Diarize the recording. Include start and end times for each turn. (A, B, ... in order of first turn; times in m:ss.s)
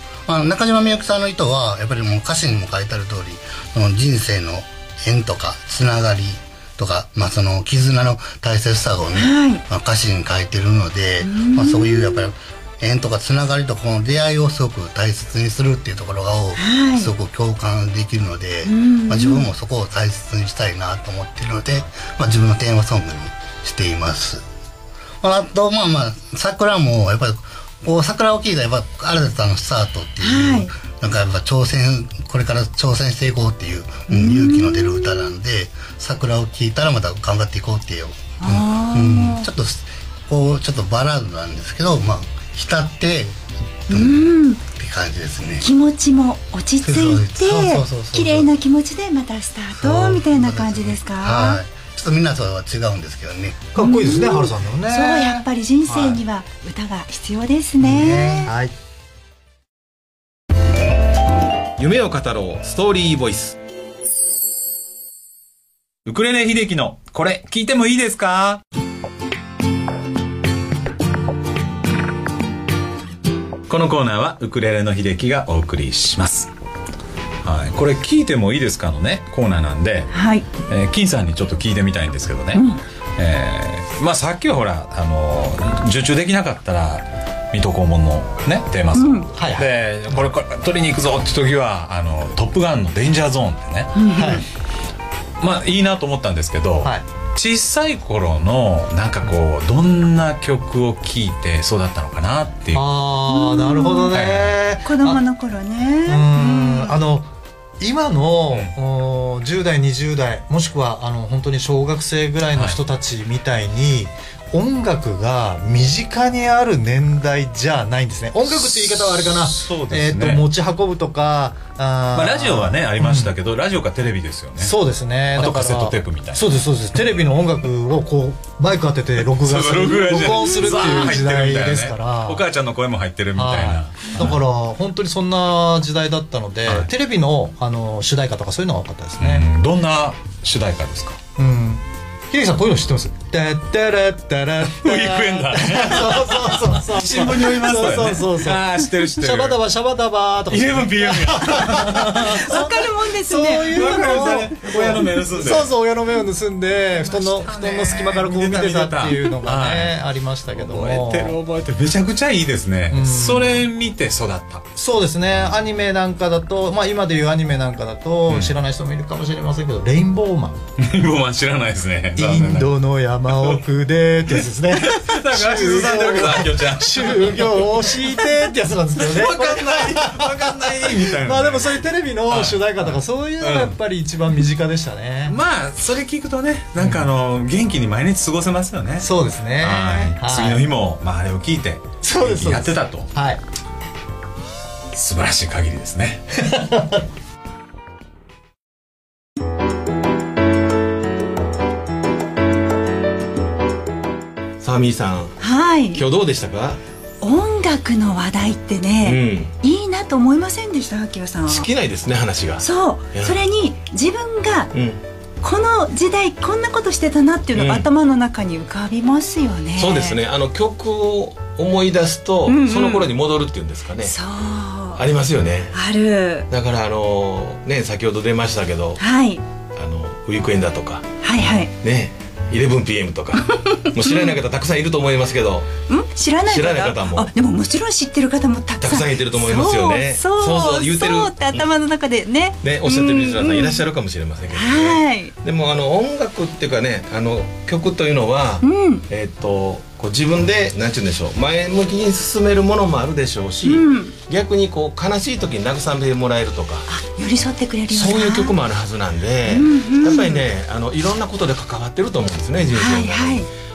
0:00.3-0:24.4 A
0:09.1-0:09.6 B
0:11.2-0:12.2 B
0:16.6-0:17.1 B
0:18.6-0:19.5 B
0:25.2-0:43.4 A
0:30.2-0:30.7 B
0:34.1-0:35.2 B
0:38.4-0:39.5 B
0:43.9-0:45.7 A
0:43.9-0:44.6 B
0:45.6-0:51.6 B
0:46.8-0:48.5 A
0:49.8-0:53.6 A
0:53.7-0:56.2 C
0:53.8-0:58.5 B
0:57.8-0:58.8 C
1:01.8-1:03.6 D
1:06.0-1:08.6 E
1:13.7-1:16.5 E
1:17.4-1:22.6 E
1:20.1-1:20.5 B
1:22.5-1:22.8 B
1:23.2-1:33.9 E
1:28.9-1:29.3 B
1:29.4-1:29.7 C
1:34.0-1:34.4 B
1:34.2-1:34.4 C
1:35.4-1:42.8 E
1:42.7-1:45.2 C
1:43.3-1:44.2 B
1:44.1-1:44.6 E
1:44.8-1:47.0 B
1:46.1-1:47.3 C
1:47.8-2:03.3 C
1:52.5-1:52.8 E
1:58.7-2:00.4 E
2:02.1-2:04.8 E
2:04.6-2:12.4 C
2:05.4-2:06.4 E
2:09.3-2:14.4 E
2:10.6-2:11.1 B
2:13.4-2:19.5 C
2:19.2-2:21.2 E
2:21.4-2:41.4 C
2:24.7-2:29.6 E
2:30.5-2:32.2 E
2:32.2-2:34.1 B
2:33.7-2:35.7 E
2:37.0-2:40.0 E
2:40.5-2:44.7 E
2:42.9-2:43.6 C
2:44.8-2:50.6 C
2:48.3-2:48.5 E
2:50.8-2:52.7 E
2:52.2-3:05.4 C
2:54.7-2:58.2 E
2:59.0-3:03.8 E
3:05.3-3:13.1 E
3:06.8-3:07.1 C
3:09.0-3:10.7 C
3:12.0-3:13.4 C
3:14.9-3:16.4 E
3:24.6-3:25.4 D
3:25.4-3:26.0 B
3:25.9-3:26.8 D
3:27.2-3:31.7 B
3:29.0-3:29.5 D
3:31.5-3:33.4 D
3:32.6-3:34.7 B
3:34.7-3:35.0 D
3:35.4-3:40.2 B
3:37.5-3:37.9 D
3:39.8-3:44.2 D
3:42.5-3:43.1 B
3:44.0-3:45.1 B
3:44.9-3:45.8 D
3:45.7-3:46.5 B
3:46.5-3:49.0 D
3:49.0-3:49.4 B
3:49.8-3:51.1 D
3:51.2-3:51.7 B
3:51.8-3:55.7 D
3:53.5-3:54.4 B
3:55.9-4:03.8 B
3:56.4-3:57.3 D
3:58.8-4:01.7 D
4:02.6-4:16.9 D
4:04.5-4:05.3 B
4:08.6-4:09.0 B
4:13.6-4:14.2 B
4:16.9-4:18.6 B
4:17.9-4:23.5 D
4:19.5-4:20.4 B
4:22.7-4:23.5 B